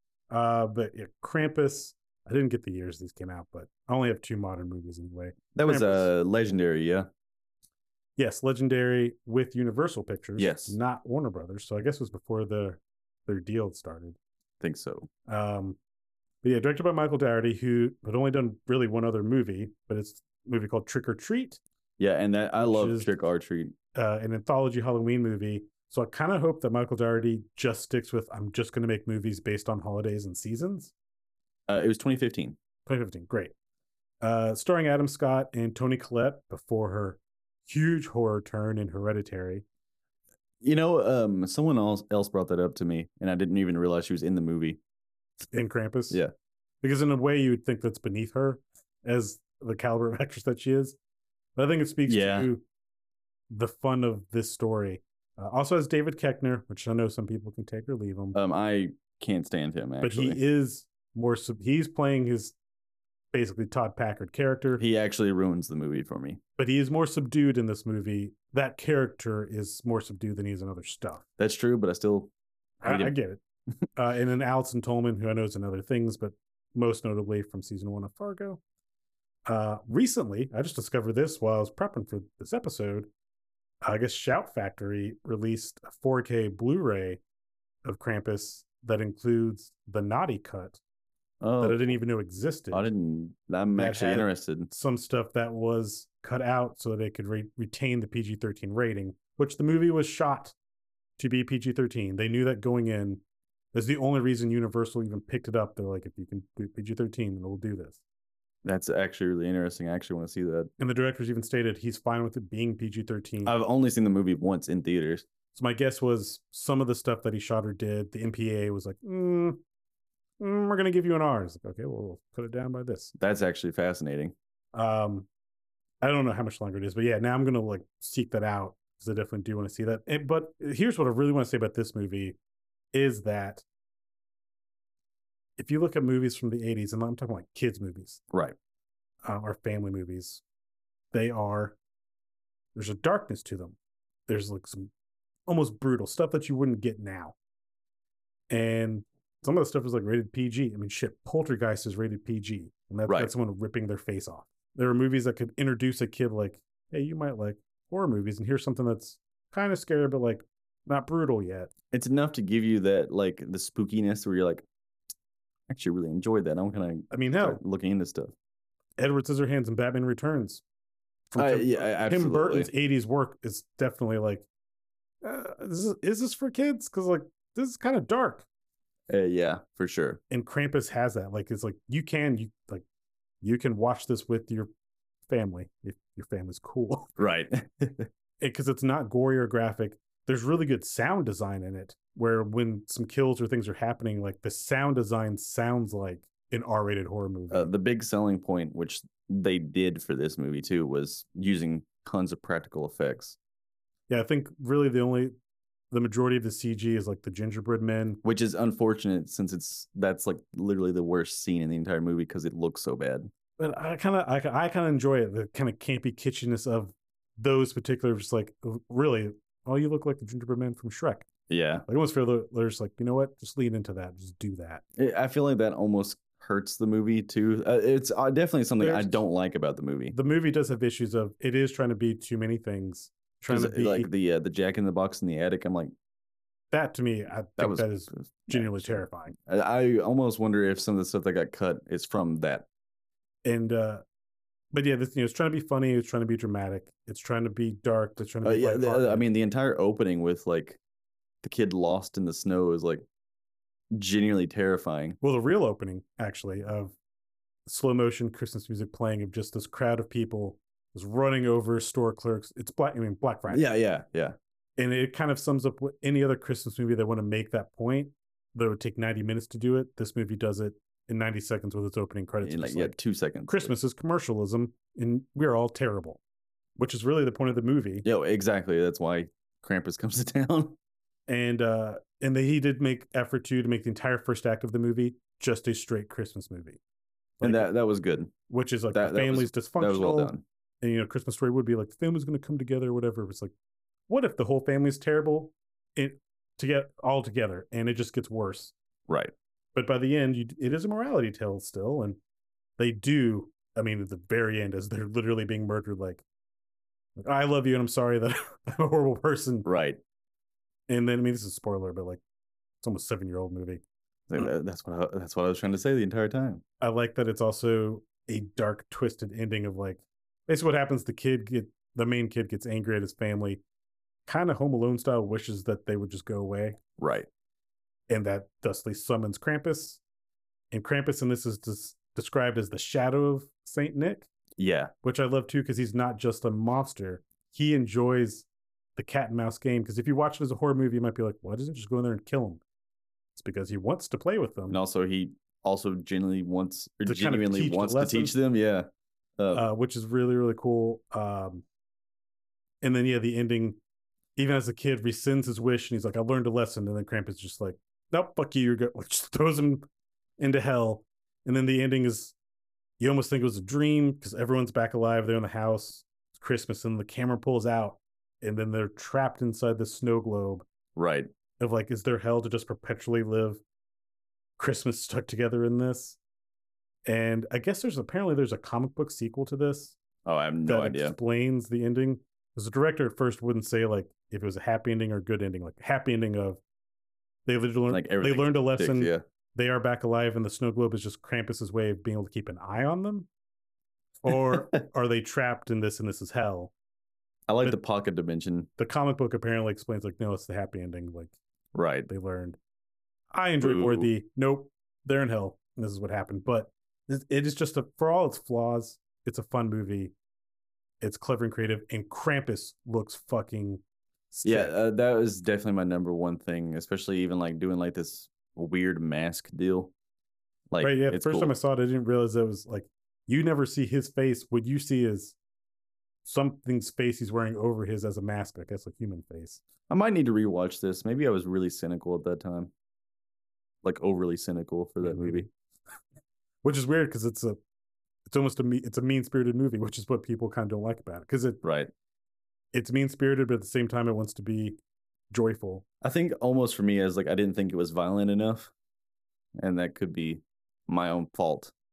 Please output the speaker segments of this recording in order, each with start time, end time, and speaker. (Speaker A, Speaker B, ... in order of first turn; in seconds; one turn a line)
Speaker A: 0.3-6.1
Speaker B: 5.5-7.1
Speaker A: 8.2-14.2
Speaker B: 10.4-10.8
Speaker B: 14.6-15.1
Speaker A: 15.3-15.8
Speaker A: 16.4-21.6
Speaker B: 22.0-23.7
Speaker A: 22.6-23.1
Speaker A: 23.9-30.9
Speaker B: 31.7-32.6
Speaker A: 32.9-33.5
Speaker A: 34.2-39.6
Speaker B: 40.6-44.8
Speaker A: 45.5-46.2
Speaker A: 46.8-51.0
Speaker A: 51.6-52.6
Speaker B: 52.1-52.5
Speaker A: 53.5-58.4
Speaker B: 58.3-60.4
Speaker A: 60.0-62.5
Speaker A: 63.3-64.8
Speaker B: 64.8-66.4
Speaker A: 66.6-71.2
Speaker B: 71.4-72.3
Speaker B: 72.8-73.2
Speaker A: 72.8-73.4
Speaker A: 74.0-78.6
Speaker A: 79.5-83.1
Speaker A: 83.8-87.2
Speaker A: 87.8-90.8
Speaker B: 91.4-92.0
Speaker A: 91.6-92.9
Speaker B: 92.7-94.7
Speaker A: 93.7-100.5
Speaker A: 101.2-103.2
Speaker A: 103.7-108.0
Speaker B: 108.6-110.7
Speaker A: 110.8-113.5
Speaker B: 113.4-115.2
Speaker A: 115.5-119.6
Speaker A: 120.4-123.1
Speaker B: 123.2-124.3
Speaker A: 124.7-125.3
Speaker A: 126.0-132.4
Speaker A: 132.9-133.6
Speaker A: 135.6-138.2
Speaker A: 139.2-140.4
Speaker A: 141.1-141.8
Speaker A: 142.8-143.8
Speaker A: 144.3-144.9
Speaker A: 145.5-147.3
Speaker A: 148.5-161.7
Speaker B: 161.9-164.6
Speaker B: 165.7-168.3
Speaker A: 167.1-167.6
Speaker A: 169.0-170.6
Speaker A: 171.3-174.4
Speaker B: 171.4-172.7
Speaker A: 175.2-178.4
Speaker B: 179.1-180.2
Speaker A: 180.3-182.8
Speaker A: 183.4-184.7
Speaker A: 185.3-187.1
Speaker B: 187.2-188.1
Speaker A: 188.4-197.7
Speaker B: 197.5-203.4
Speaker A: 204.1-205.3
Speaker A: 205.9-208.2
Speaker B: 208.2-213.3
Speaker A: 213.6-221.2
Speaker B: 221.5-221.9
Speaker A: 221.9-224.8
Speaker B: 225.0-230.2
Speaker A: 228.8-229.2
Speaker A: 230.1-234.1
Speaker B: 233.5-235.9
Speaker A: 236.7-239.3
Speaker B: 237.6-242.7
Speaker A: 243.4-244.0
Speaker A: 244.7-249.3
Speaker B: 248.4-250.8
Speaker B: 251.4-253.0
Speaker B: 253.9-255.2
Speaker A: 255.2-256.9
Speaker A: 257.7-263.6
Speaker B: 263.5-264.4
Speaker A: 264.8-273.0
Speaker B: 272.4-273.7
Speaker A: 273.5-276.2
Speaker A: 276.8-278.1
Speaker B: 278.0-280.8
Speaker A: 281.3-286.8
Speaker A: 287.4-287.7
Speaker B: 287.4-288.3
Speaker A: 288.5-293.5
Speaker B: 288.9-290.4
Speaker A: 294.1-298.7
Speaker B: 299.1-299.3
Speaker A: 299.8-302.2
Speaker A: 302.8-306.2
Speaker A: 307.2-309.7
Speaker B: 309.6-310.0
Speaker A: 310.9-312.2
Speaker A: 312.8-313.8
Speaker B: 314.3-316.6
Speaker A: 316.8-323.6
Speaker A: 324.3-326.8
Speaker B: 327.0-327.3
Speaker A: 328.1-330.0
Speaker A: 330.7-334.3
Speaker B: 334.6-334.9
Speaker A: 335.0-342.6
Speaker A: 343.4-344.8
Speaker B: 344.7-349.6
Speaker A: 347.1-348.3
Speaker A: 349.5-351.6
Speaker A: 352.8-353.8
Speaker A: 354.4-359.9
Speaker A: 360.4-362.3
Speaker A: 363.0-370.6
Speaker B: 371.0-371.3
Speaker A: 371.6-373.6
Speaker A: 374.6-376.2
Speaker A: 377.1-379.9
Speaker B: 380.3-381.2
Speaker A: 380.6-386.6
Speaker A: 387.5-393.3
Speaker B: 387.9-389.2
Speaker A: 394.2-396.7
Speaker B: 394.3-394.8
Speaker B: 397.5-398.7
Speaker A: 398.8-401.3
Speaker B: 401.7-402.1
Speaker A: 402.1-402.6
Speaker A: 403.3-410.1
Speaker B: 403.6-404.1
Speaker A: 411.0-414.7
Speaker B: 414.4-419.9
Speaker B: 420.7-421.5
Speaker A: 420.8-425.4
Speaker A: 426.2-429.6
Speaker B: 429.9-432.7
Speaker B: 433.8-435.5
Speaker A: 435.0-435.5
Speaker A: 436.6-437.6
Speaker A: 438.3-441.6
Speaker B: 441.6-441.9
Speaker A: 442.7-444.8
Speaker A: 445.3-445.8
Speaker B: 446.0-448.7
Speaker B: 449.6-451.7